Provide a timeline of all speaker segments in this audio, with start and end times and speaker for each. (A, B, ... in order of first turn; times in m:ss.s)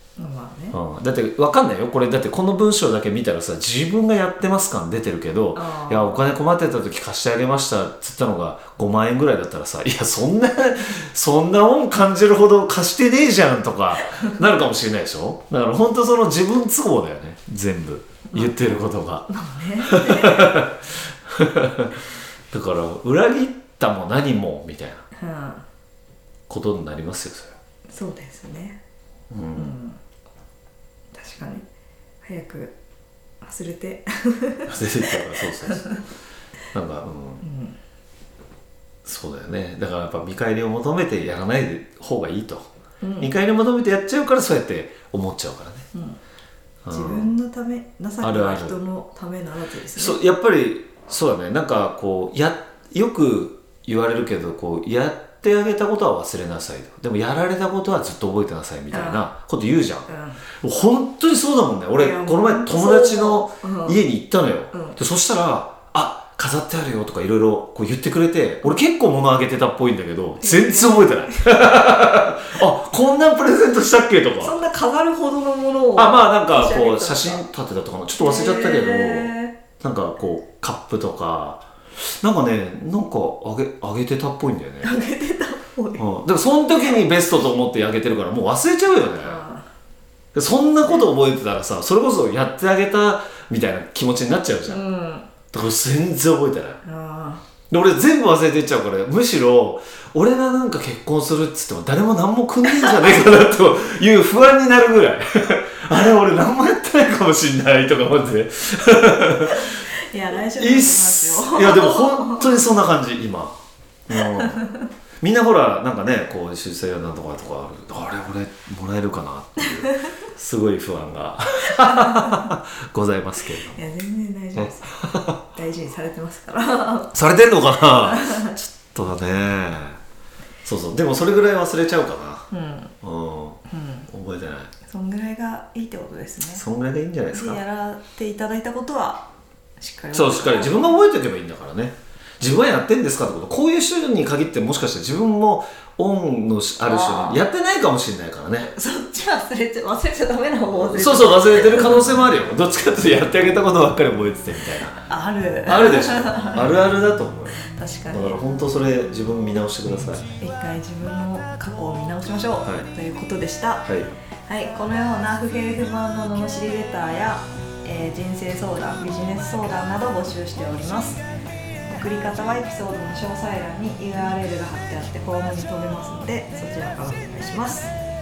0:00.2-0:00.8 A
0:00.7-0:19.3 B
0:05.5-0:06.2 A
0:19.3-0:20.6 A
0:19.8-0:25.0 B
0:25.2-0:25.6 A
0:26.5-0:27.6 B
0:27.9-0:28.8 A
0:29.3-0:29.7 B
0:29.5-0:30.0 A
0:31.1-0:31.6 A
0:32.2-0:32.7 A
0:33.4-0:36.0 A
0:34.6-0:35.9 B
0:36.7-0:37.4 B
0:37.4-0:37.8 A
0:39.0-0:42.7 B
0:43.0-0:43.3 A
0:43.2-0:45.8 B
0:45.9-0:46.2 A
0:46.8-0:47.3 B
0:46.9-0:50.2 A
0:48.2-0:48.8 B
0:49.9-1:00.1 B
0:58.9-0:59.3 A
1:00.1-1:00.4 A
1:00.6-1:14.6 B
1:01.9-1:04.0 A
1:04.7-1:05.0 A
1:10.4-1:11.5 A
1:14.4-1:17.4 A
1:16.0-1:24.9 B
1:18.2-1:19.6 A
1:24.8-1:26.0 A
1:26.0-1:29.4 B
1:29.2-1:29.7 A
1:30.3-1:34.8 B
1:34.7-1:35.3 A
1:35.5-1:36.8 B
1:36.8-1:37.4 A
1:37.7-1:49.7 B
1:42.6-1:43.3 A
1:49.5-1:52.6 A
1:50.5-1:53.5 B
1:54.1-1:54.6 B
1:54.1-1:54.8 A
1:55.2-2:03.8 B
2:01.8-2:02.5 A
2:03.5-2:05.0 A
2:04.6-2:05.4 B
2:05.5-2:07.1 A
2:07.1-2:10.0 B
2:07.9-2:08.5 A
2:10.6-2:12.5 B
2:12.5-2:12.9 A
2:13.0-2:14.7 B
2:13.7-2:14.1 A
2:14.8-2:16.6 A
2:16.5-2:17.6 B
2:17.3-2:19.3 A
2:19.8-2:21.0 A
2:20.1-2:28.7 B
2:26.8-2:27.4 A
2:28.7-2:32.3 A
2:30.8-2:35.0 B
2:35.0-2:36.7 A
2:35.7-2:37.6 B
2:37.6-2:38.4 A
2:38.1-2:40.2 B
2:40.4-2:43.9 A
2:42.6-2:42.9 B
2:43.8-2:44.1 B
2:44.5-2:51.2 A
2:51.9-2:57.9 A